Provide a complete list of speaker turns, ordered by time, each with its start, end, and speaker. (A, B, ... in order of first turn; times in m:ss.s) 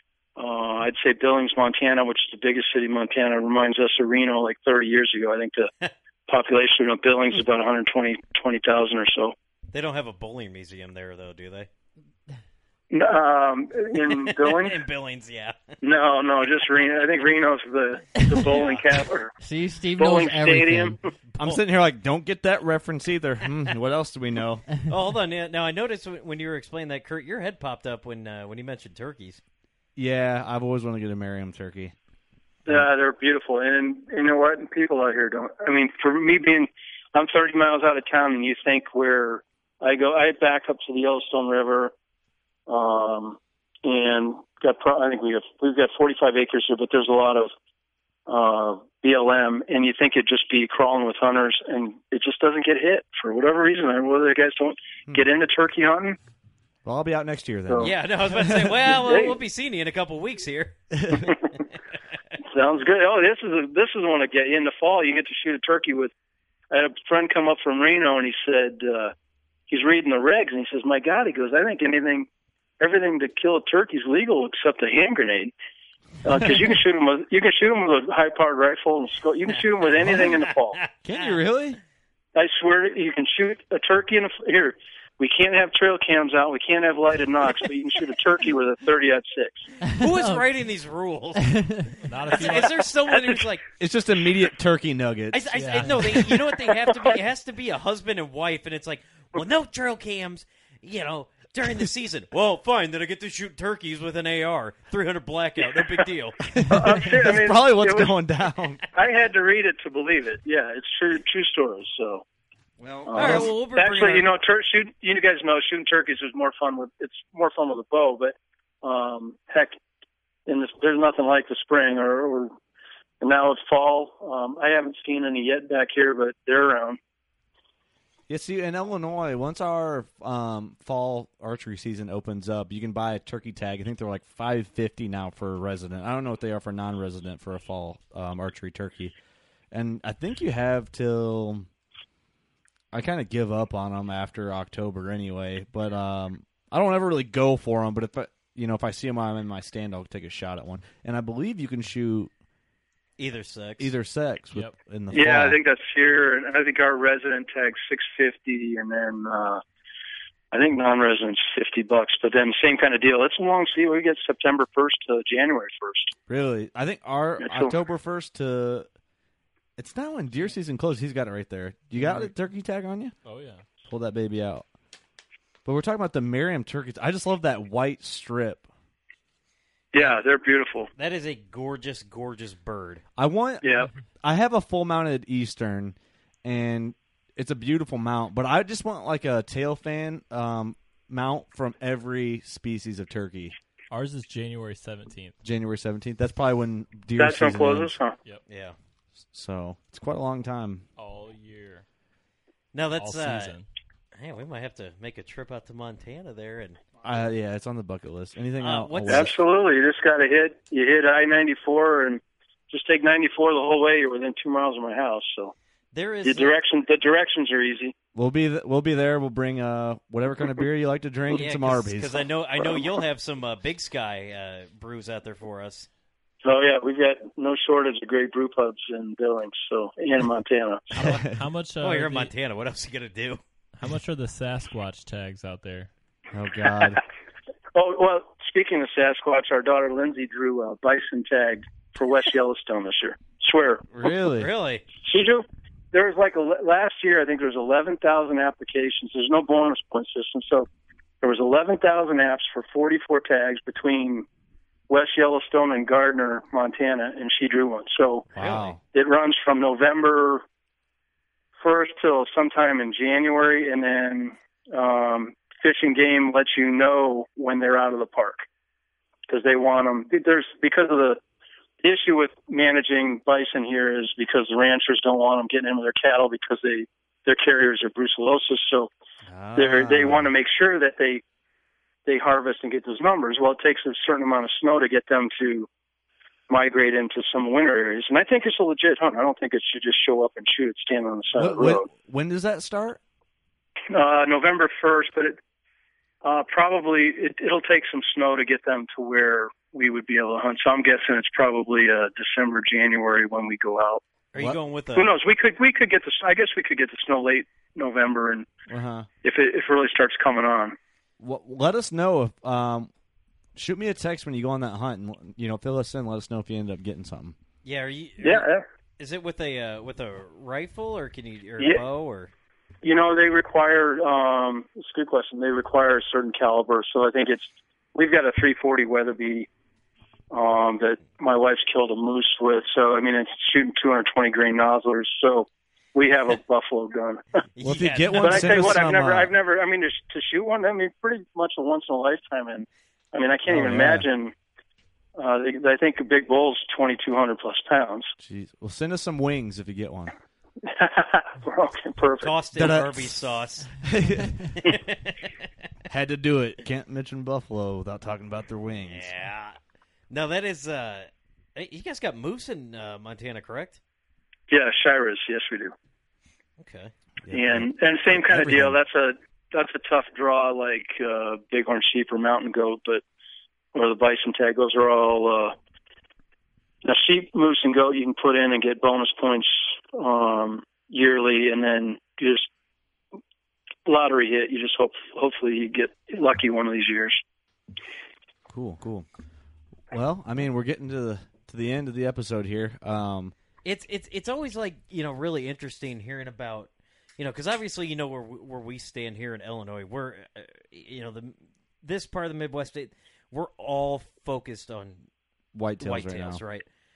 0:00.4-0:05.7 A
0:06.3-0:09.3 A
0:09.7-0:11.7 B
0:12.9-0:14.8 A
0:14.1-0:15.8 B
0:15.8-0:19.3 A
0:18.4-0:18.8 B
0:19.4-0:21.0 C
0:20.0-0:21.0 A
0:21.3-0:21.6 B
0:21.4-0:24.7 D
0:24.9-0:29.4 B
0:30.0-0:32.0 D
0:32.7-0:41.9 A
0:42.7-0:47.5 A
0:48.3-0:56.2 A
0:56.8-0:58.9 D
0:57.8-1:01.3 B
0:59.0-0:59.3 A
1:00.9-1:01.3 D
1:02.5-1:06.1 A
1:06.7-1:09.1 A
1:09.7-1:12.3 A
1:12.8-1:15.5 A
1:16.2-1:20.8 A
1:19.8-1:21.4 B
1:21.0-1:21.8 D
1:22.4-1:29.7 A
1:29.8-1:33.6 B
1:30.0-1:30.4 C
1:31.5-1:31.8 C
1:32.0-1:32.9 E
1:33.1-1:33.4 A
1:33.8-1:36.0 D
1:35.3-1:46.4 B
1:35.5-1:36.2 E
1:36.2-1:37.0 A
1:46.5-1:48.8 D
1:46.7-1:48.1 A
1:48.9-1:52.2 A
1:52.8-1:53.5 D
1:53.1-1:59.8 A
1:53.1-1:54.3 B
2:00.5-2:02.5 A
2:03.2-2:07.0 A
2:08.3-2:19.2 D
2:19.7-2:21.7 D
2:22.9-2:32.3 D
2:33.2-2:33.9 B
2:33.8-2:35.6 D
2:35.1-2:39.6 A
2:40.5-2:46.1 A
2:46.3-2:48.9 D
2:47.4-2:47.7 A
2:49.8-2:53.2 D
2:52.0-2:52.3 E
2:53.2-2:53.6 E
2:53.9-2:54.7 D
2:55.6-2:58.7 D
2:59.9-3:00.9 A
3:01.0-3:03.0 B
3:03.2-3:13.6 D
3:03.6-3:03.9 A
3:13.9-3:15.4 E
3:15.4-3:18.0 D
3:17.2-3:18.2 A
3:18.5-3:18.8 B
3:19.3-3:20.9 D
3:21.0-3:21.8 E
3:22.7-3:23.5 B
3:23.0-3:23.7 E
3:24.2-3:26.8 B
3:27.0-3:29.4 D
3:28.6-3:29.3 B
3:29.1-3:35.5 A
3:35.9-3:36.6 B
3:36.2-3:37.9 A
3:38.2-3:42.2 D
3:41.3-3:45.9 B
3:46.4-3:50.9 A
3:50.9-3:52.3 E
3:51.0-3:51.3 D
3:51.8-3:53.4 B
3:53.8-3:55.9 E
3:56.3-3:57.0 D
3:57.7-4:03.8 A
4:03.9-4:04.5 D
4:04.4-4:04.8 B
4:05.0-4:10.7 A
4:11.2-4:14.3 A
4:14.9-4:20.4 A
4:18.4-4:18.8 D
4:18.4-4:18.7 E
4:21.6-4:28.4 A
4:29.3-4:31.2 A
4:31.8-4:38.9 A
4:39.3-4:40.3 D
4:39.6-4:41.2 A
4:42.1-4:45.7 A
4:46.5-4:51.8 A
4:51.4-4:53.0 D
4:53.9-4:55.4 A
4:56.2-5:04.0 A
5:04.3-5:05.1 B
5:05.0-5:08.5 A
5:08.7-5:09.1 D
5:09.2-5:10.8 A
5:11.2-5:12.9 D
5:13.6-5:17.4 D
5:17.6-5:18.5 B
5:18.2-5:18.6 A
5:19.0-5:22.3 B
5:22.8-5:29.5 A
5:30.3-5:37.4 A
5:37.6-5:39.0 B
5:37.6-5:39.3 D
5:38.2-5:44.3 A
5:43.5-5:44.1 D
5:45.2-5:48.1 A
5:48.2-5:50.1 D
5:50.6-5:52.4 A
5:52.2-5:53.8 B
5:52.6-5:53.2 D
5:53.8-5:54.4 D
5:54.5-5:55.3 B
5:55.9-5:59.1 D
5:58.9-5:59.6 B
6:00.1-6:03.8 B
6:04.5-6:05.7 A
6:06.6-6:06.9 B
6:07.2-6:08.8 D
6:07.3-6:13.0 A
6:13.7-6:15.6 A
6:16.8-6:22.5 A
6:23.9-6:27.2 A
6:28.5-6:29.1 D
6:29.9-6:33.4 D
6:33.6-6:45.0 B
6:45.5-6:46.4 D
6:45.8-6:46.7 B